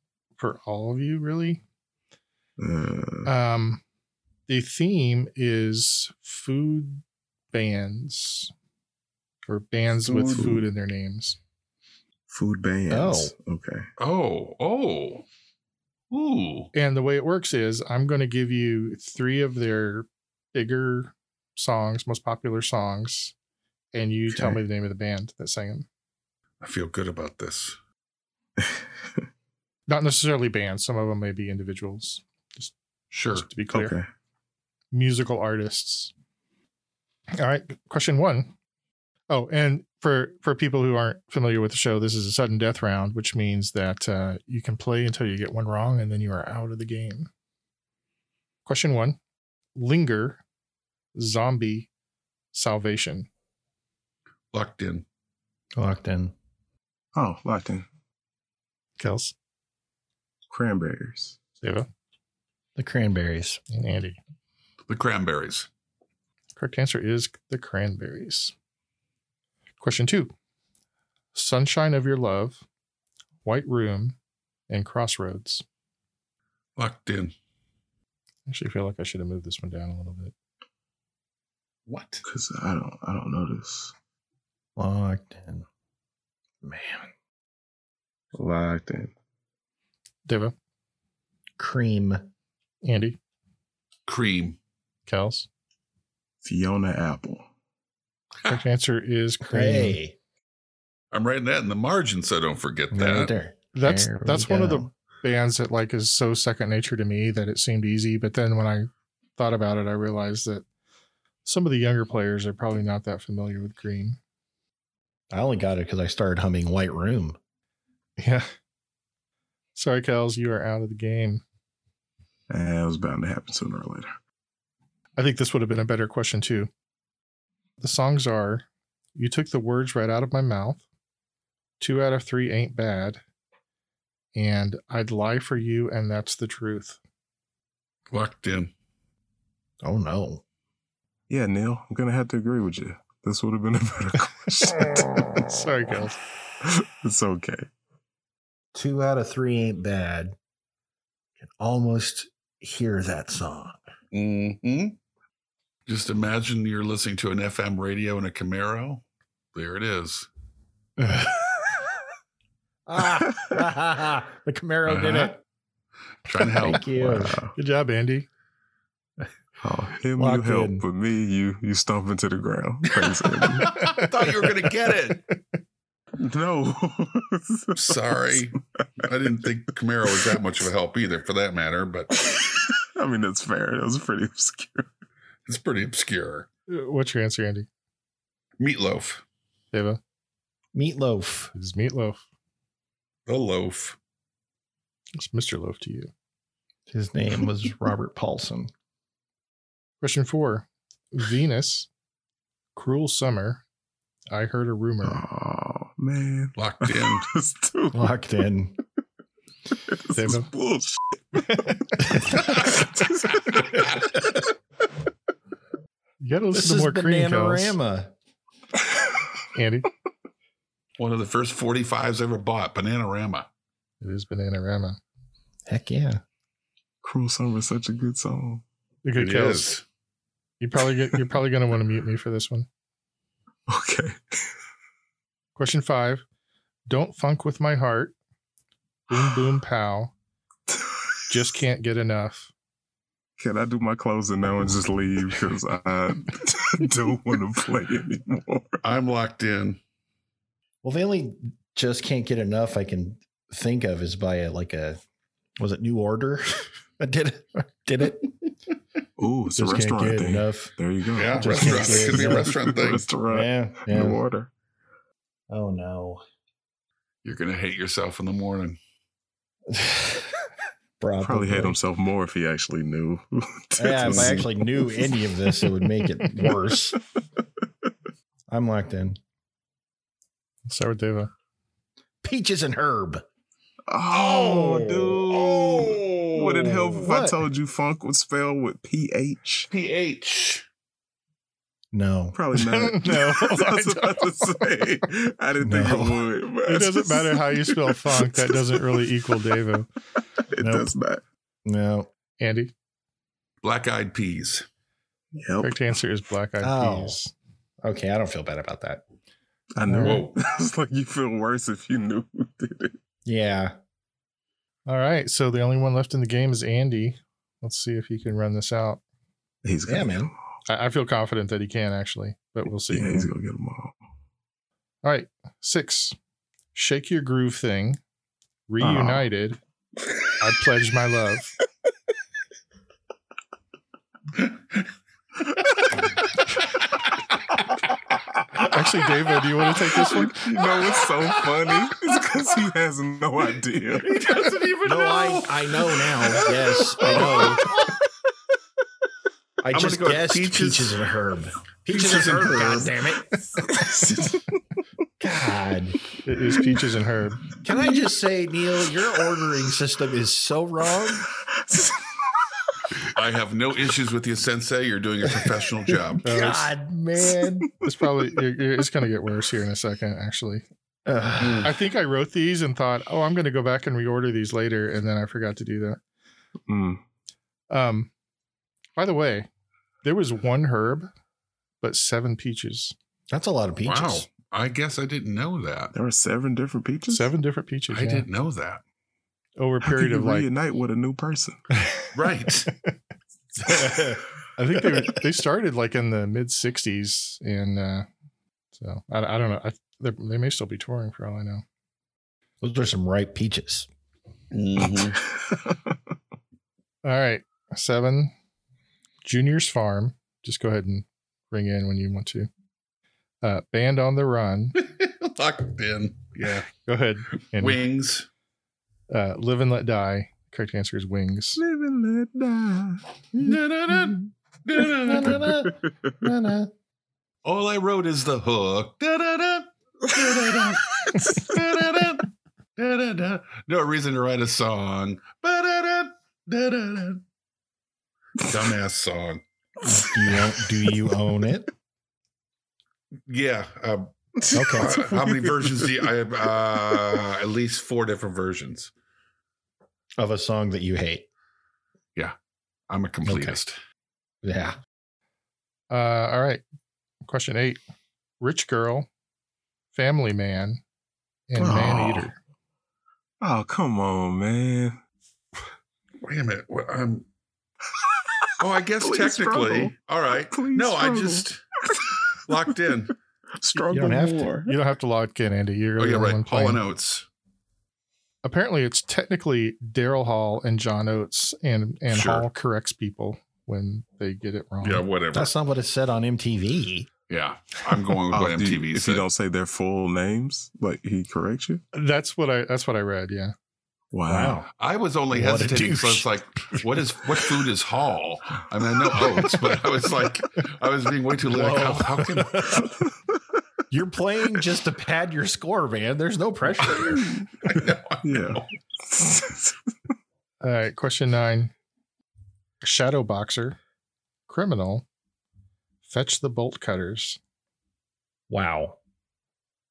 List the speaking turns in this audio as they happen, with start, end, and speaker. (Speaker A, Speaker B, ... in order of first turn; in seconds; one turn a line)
Speaker A: 0.4-1.6
Speaker B: 2.6-3.3
Speaker A: 3.2-3.8
Speaker A: 4.5-8.5
Speaker A: 9.5-11.4
Speaker C: 10.1-10.4
Speaker B: 10.2-10.7
Speaker B: 12.3-13.8
Speaker D: 12.9-13.3
Speaker C: 14.0-15.2
Speaker C: 16.1-16.7
Speaker A: 16.7-23.3
Speaker A: 23.9-25.9
Speaker B: 24.3-24.6
Speaker C: 26.6-27.8
Speaker A: 29.9-32.7
Speaker C: 33.1-33.5
Speaker A: 33.3-33.9
Speaker B: 33.7-34.1
Speaker A: 34.9-36.1
Speaker A: 37.4-38.5
Speaker A: 39.3-47.3
Speaker A: 48.6-49.2
Speaker A: 49.8-50.4
Speaker A: 51.1-51.9
Speaker A: 52.5-53.3
Speaker C: 54.5-55.0
Speaker D: 55.7-56.3
Speaker B: 57.1-57.9
Speaker A: 59.0-59.3
Speaker B: 60.5-61.4
Speaker A: 61.6-61.9
Speaker D: 62.8-63.6
Speaker A: 63.7-64.2
Speaker C: 64.9-65.7
Speaker A: 66.5-68.5
Speaker A: 69.8-70.3
Speaker A: 71.3-72.6
Speaker A: 73.4-74.2
Speaker A: 74.7-75.6
Speaker C: 76.8-77.3
Speaker A: 78.5-80.3
Speaker C: 81.9-82.2
Speaker B: 82.2-83.9
Speaker D: 84.8-85.7
Speaker D: 86.6-87.1
Speaker B: 88.3-89.1
Speaker A: 90.2-90.5
Speaker D: 91.6-92.3
Speaker A: 92.8-93.2
Speaker C: 94.1-94.6
Speaker A: 95.1-95.5
Speaker B: 96.4-97.5
Speaker A: 98.4-100.0
Speaker D: 99.5-100.2
Speaker C: 101.1-103.3
Speaker D: 102.9-104.9
Speaker A: 103.7-110.6
Speaker A: 111.4-114.2
Speaker D: 115.3-117.4
Speaker A: 118.2-118.5
Speaker A: 119.8-121.4
Speaker B: 122.5-124.1
Speaker A: 125.2-126.7
Speaker A: 127.8-130.8
Speaker A: 131.8-133.2
Speaker A: 134.3-137.0
Speaker C: 138.1-138.7
Speaker D: 139.8-140.4
Speaker B: 141.3-145.0
Speaker A: 145.5-146.2
Speaker B: 146.6-147.7
Speaker D: 148.7-150.3
Speaker D: 151.4-153.8
Speaker C: 154.1-155.0
Speaker C: 155.9-160.3
Speaker D: 161.0-161.5
Speaker D: 162.9-165.4
Speaker C: 164.8-165.3
Speaker C: 166.2-166.8
Speaker D: 166.5-167.4
Speaker B: 166.7-167.5
Speaker A: 167.6-168.3
Speaker B: 169.6-173.8
Speaker D: 170.2-170.8
Speaker C: 173.6-175.2
Speaker A: 173.7-174.1
Speaker B: 176.2-178.5
Speaker C: 177.8-182.3
Speaker B: 182.3-184.9
Speaker C: 185.4-186.5
Speaker A: 186.7-187.7
Speaker C: 188.6-189.2
Speaker A: 189.7-190.0
Speaker D: 190.7-191.5
Speaker A: 191.5-192.2
Speaker C: 193.3-194.0
Speaker A: 195.2-196.1
Speaker D: 196.9-198.7
Speaker A: 200.0-201.9
Speaker A: 202.8-203.6
Speaker A: 204.3-205.2
Speaker B: 205.0-208.1
Speaker C: 206.6-207.3
Speaker D: 207.9-208.8
Speaker B: 209.9-213.9
Speaker A: 210.1-210.5
Speaker A: 211.3-212.2
Speaker A: 216.2-217.8
Speaker D: 216.5-218.1
Speaker A: 219.5-219.9
Speaker C: 221.0-223.5
Speaker A: 224.0-225.0
Speaker D: 225.7-226.2
Speaker B: 227.0-228.6
Speaker A: 229.0-229.7
Speaker C: 229.2-229.8
Speaker A: 230.6-232.7
Speaker B: 233.7-234.4
Speaker A: 235.6-236.2
Speaker A: 236.9-238.1
Speaker A: 239.1-240.1
Speaker A: 241.3-242.5
Speaker B: 243.4-248.8
Speaker C: 248.8-249.8
Speaker D: 250.8-255.0
Speaker D: 255.6-258.3
Speaker B: 259.2-264.5
Speaker D: 259.6-260.7
Speaker C: 261.1-263.1
Speaker D: 261.3-262.5
Speaker D: 263.3-264.2
Speaker D: 265.5-266.2
Speaker C: 267.2-268.8
Speaker D: 269.7-270.3
Speaker D: 271.0-271.8
Speaker B: 271.2-275.1
Speaker D: 273.8-277.0
Speaker C: 274.0-274.4
Speaker D: 278.5-279.2
Speaker A: 280.6-281.3
Speaker D: 282.2-283.2
Speaker B: 283.9-289.7
Speaker C: 284.1-287.0
Speaker D: 286.9-287.4
Speaker C: 289.7-290.6
Speaker D: 291.9-292.4
Speaker B: 292.3-299.2
Speaker A: 292.5-294.6
Speaker D: 295.6-296.2
Speaker A: 296.7-299.9
Speaker B: 300.5-301.2
Speaker D: 300.6-300.9
Speaker D: 301.6-302.1
Speaker A: 302.4-302.7
Speaker C: 303.6-304.6
Speaker B: 305.3-306.0
Speaker A: 305.6-307.3
Speaker D: 306.6-307.2
Speaker D: 307.8-309.0
Speaker B: 309.8-312.9
Speaker A: 309.9-310.2
Speaker C: 310.0-310.4
Speaker D: 313.2-313.8
Speaker A: 314.9-319.0
Speaker B: 319.6-320.3
Speaker D: 319.9-320.3
Speaker A: 320.7-323.3
Speaker B: 322.9-324.0
Speaker A: 325.0-326.1
Speaker A: 326.7-328.0
Speaker A: 328.7-329.6
Speaker B: 328.8-329.2
Speaker A: 330.4-331.5
Speaker A: 338.6-340.5
Speaker B: 340.0-344.5
Speaker C: 340.8-341.3
Speaker C: 343.9-347.8
Speaker D: 344.8-347.7
Speaker D: 349.6-353.4
Speaker C: 349.7-351.0
Speaker C: 351.9-352.9
Speaker B: 353.7-354.5
Speaker D: 355.2-356.0
Speaker A: 356.2-357.4
Speaker D: 357.6-361.3
Speaker B: 361.7-362.0
Speaker C: 363.1-366.2
Speaker A: 366.2-366.7
Speaker D: 366.2-367.7
Speaker A: 367.8-370.6
Speaker D: 371.1-371.7
Speaker C: 371.4-371.7
Speaker A: 371.6-376.0
Speaker B: 376.7-377.0
Speaker A: 377.7-378.1
Speaker A: 378.9-379.5
Speaker A: 380.0-381.1
Speaker A: 381.8-382.9
Speaker D: 383.3-384.3
Speaker C: 383.8-385.9
Speaker B: 385.9-387.3
Speaker A: 387.1-388.3
Speaker C: 387.9-388.8
Speaker A: 389.6-390.5
Speaker B: 389.8-391.6
Speaker C: 392.1-392.7
Speaker D: 393.6-394.2
Speaker A: 394.6-398.1
Speaker A: 398.8-401.6
Speaker D: 402.6-403.9
Speaker C: 404.5-405.2
Speaker A: 407.0-408.3
Speaker A: 409.2-412.5
Speaker A: 413.4-414.8
Speaker C: 414.8-416.7
Speaker A: 416.8-417.8
Speaker C: 417.6-418.3
Speaker A: 419.1-421.6
Speaker B: 421.6-423.0
Speaker C: 423.3-425.5
Speaker D: 424.8-426.7
Speaker B: 425.3-425.6
Speaker C: 427.4-437.2
Speaker C: 438.4-439.4
Speaker D: 439.8-441.7
Speaker C: 443.3-444.1
Speaker B: 444.4-446.1
Speaker D: 444.5-445.0
Speaker C: 444.7-448.9
Speaker D: 450.2-451.3
Speaker C: 452.9-453.8
Speaker D: 453.2-453.6
Speaker D: 454.4-454.8
Speaker A: 455.9-456.6
Speaker A: 457.2-457.8
Speaker A: 458.4-459.1
Speaker A: 459.9-460.8
Speaker A: 461.5-462.4
Speaker B: 461.6-462.3
Speaker B: 463.4-465.0
Speaker C: 466.2-467.3
Speaker C: 468.6-471.6
Speaker B: 469.0-472.1
Speaker C: 472.4-473.1
Speaker B: 473.6-474.8
Speaker A: 473.7-476.8
Speaker D: 473.9-474.5
Speaker C: 476.0-477.3
Speaker A: 478.4-485.0
Speaker C: 482.1-482.5
Speaker C: 484.8-485.5
Speaker D: 485.3-487.1
Speaker C: 487.3-489.3
Speaker B: 488.3-491.8
Speaker A: 491.9-493.5
Speaker B: 494.1-494.6
Speaker D: 494.2-494.7
Speaker C: 494.8-502.9
Speaker D: 495.3-496.3
Speaker D: 501.4-502.9
Speaker D: 503.9-507.3
Speaker C: 506.8-508.6
Speaker B: 507.2-507.6
Speaker B: 508.2-509.8
Speaker A: 510.6-511.7
Speaker A: 512.8-513.8
Speaker A: 514.5-515.0
Speaker A: 516.0-517.4
Speaker D: 518.5-519.0